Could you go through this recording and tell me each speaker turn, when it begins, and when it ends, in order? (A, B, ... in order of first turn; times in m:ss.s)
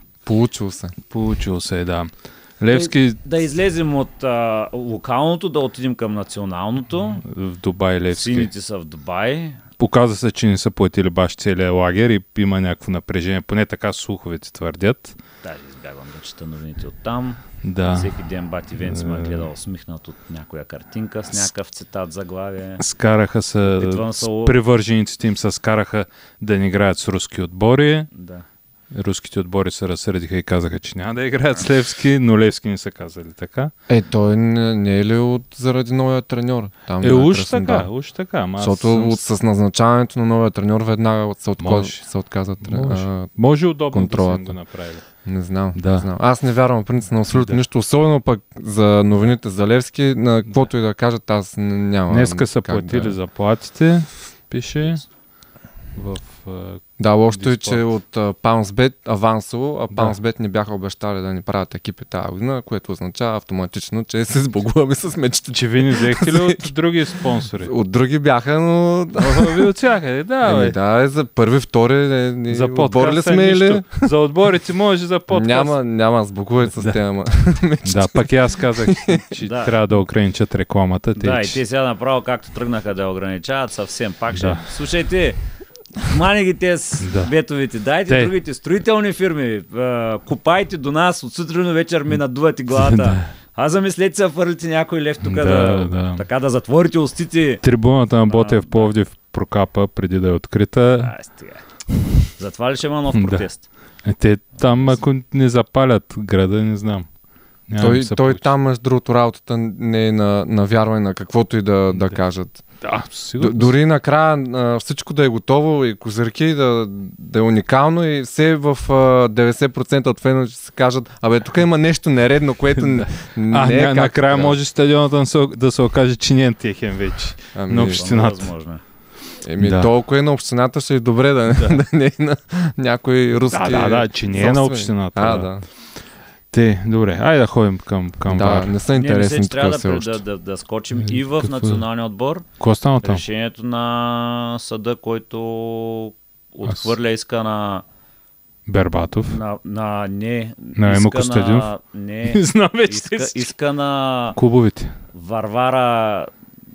0:00.3-0:01.0 A
0:01.1-0:03.2 B
0:02.7-0:07.2 C
0:07.2-0:08.5 B
0:08.1-0:09.6 C
0:09.8-0:15.2 B
0:15.4-0:22.8 C
0:17.6-0:18.1 B
0:18.8-0:19.5 B
0:22.8-0:28.1 B
0:23.7-0:24.6 C
0:28.1-0:28.4 C
0:28.9-0:33.7 B
0:33.9-0:37.9 A
0:37.0-0:39.2 B
0:38.6-0:43.3 A
0:41.6-0:42.0 B
0:42.6-0:45.1 B
0:43.9-0:44.6 A
0:45.2-0:53.2 A
0:45.8-0:46.1 B
0:47.3-0:47.6 B
0:52.1-0:55.0 B
0:56.0-0:57.8 B
0:57.0-1:06.7 A
0:59.9-1:00.2 B
1:05.5-1:07.7 B
1:07.6-1:09.7 A
1:09.2-1:10.8 B
1:10.4-1:14.1 A
1:12.5-1:15.8 B
1:15.3-1:19.3 A
1:17.8-1:21.6 B
1:19.4-1:19.7 C
1:21.2-1:25.4 C
1:24.3-1:24.7 B
1:26.0-1:37.6 C
1:27.0-1:27.3 B
1:28.1-1:28.3 B
1:32.8-1:33.3 B
1:35.2-1:36.2 B
1:37.6-1:41.1 B
1:38.3-1:38.9 C
1:41.0-1:41.7 C
1:42.3-1:43.7 C
1:43.1-1:43.5 B
1:44.0-1:47.1 B
1:44.6-1:45.0 C
1:47.7-1:48.4 B
1:47.8-1:52.6 A
1:51.9-1:52.2 B
1:52.8-1:53.7 B
1:53.4-2:04.6 A
2:02.8-2:08.5 B
2:07.6-2:08.1 A
2:07.8-2:08.8 C
2:09.4-2:15.6 A
2:09.6-2:09.9 B
2:11.5-2:11.8 B
2:13.5-2:15.5 B
2:16.5-2:18.8 B
2:18.3-2:20.2 A
2:18.9-2:22.5 C
2:21.0-2:21.8 B
2:22.6-2:23.2 B
2:23.0-2:27.8 C
2:26.7-2:26.9 B
2:28.7-2:29.4 B
2:29.3-2:34.4 C
2:30.8-2:31.7 B
2:32.2-2:33.5 B
2:34.4-2:35.0 B
2:35.1-2:36.3 C